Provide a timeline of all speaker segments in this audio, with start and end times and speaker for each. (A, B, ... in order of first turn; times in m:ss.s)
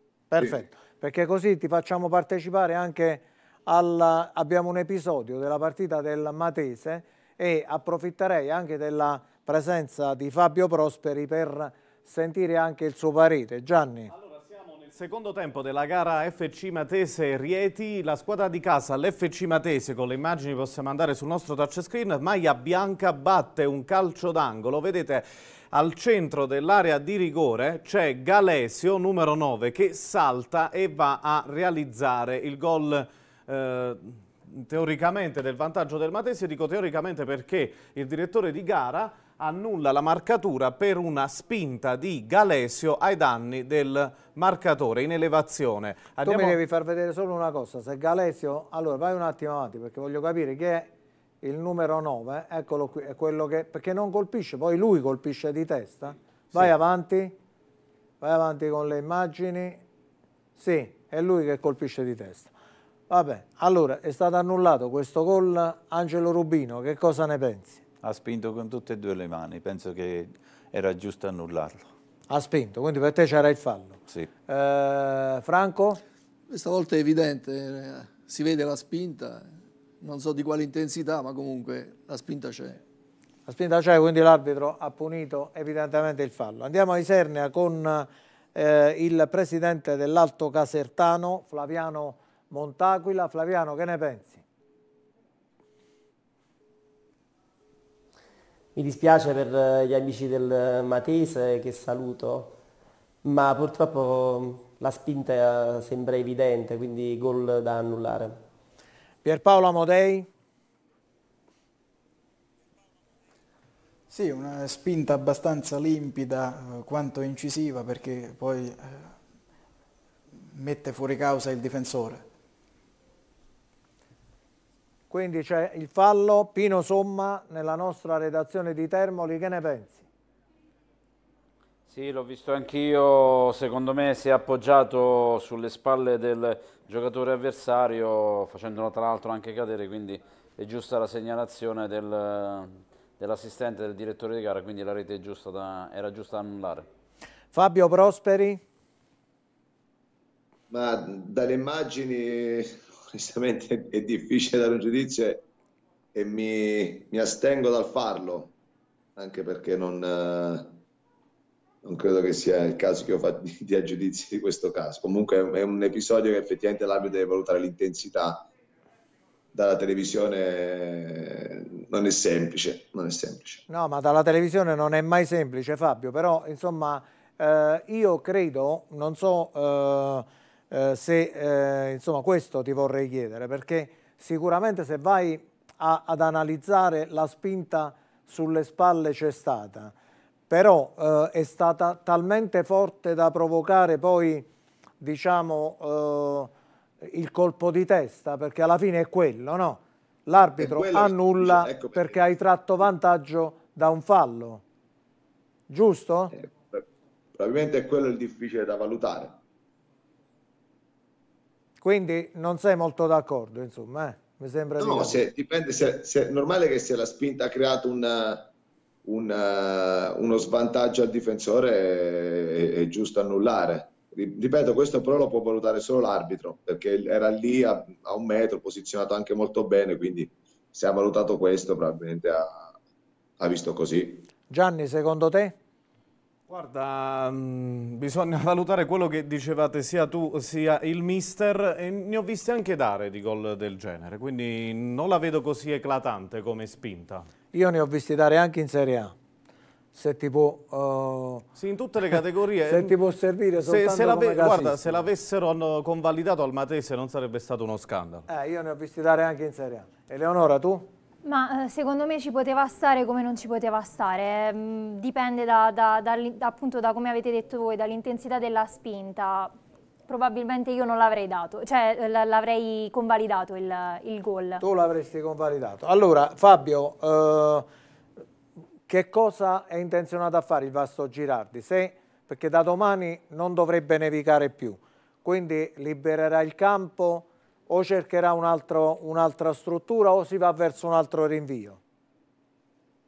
0:00.3-0:14.1 A
0:14.1-0:46.6 B
0:46.2-0:50.9 A
0:51.4-0:57.3 A
0:58.2-0:59.8 A
1:00.6-1:02.5 A
1:03.1-1:07.8 A
1:08.0-1:11.9 C
1:12.3-1:16.0 A
1:16.5-1:22.8 D
1:23.4-1:34.4 A
1:38.7-1:42.6 E
1:43.2-1:48.4 E
1:49.2-1:50.3 A
1:54.1-1:59.1 F
2:00.4-2:02.2 F
2:05.1-2:10.0 A
2:11.9-2:26.9 G
2:27.5-2:28.6 A
2:30.7-2:35.4 H
2:36.1-2:38.5 H
2:39.2-2:40.8 H
2:41.8-2:48.5 H
2:49.5-2:53.6 H
2:53.7-3:09.9 A
3:10.5-3:14.5 A
3:15.0-3:24.6 A
3:20.6-3:22.2 H
3:25.7-3:26.3 A
3:26.3-3:26.8 H
3:27.4-3:29.4 H
3:31.8-3:35.2 A
3:34.8-3:38.5 H
3:39.0-3:52.7 H
3:53.4-3:54.3 H
3:54.5-3:55.6 A
3:56.5-4:07.3 B
4:07.5-4:09.1 A
4:09.9-4:11.5 A
4:11.6-4:12.9 B
4:12.6-4:15.0 A
4:13.6-4:18.2 B
4:18.3-4:20.9 A
4:21.2-4:29.5 I
4:30.1-4:34.6 I
4:34.6-4:37.7 A
4:38.9-4:51.8 A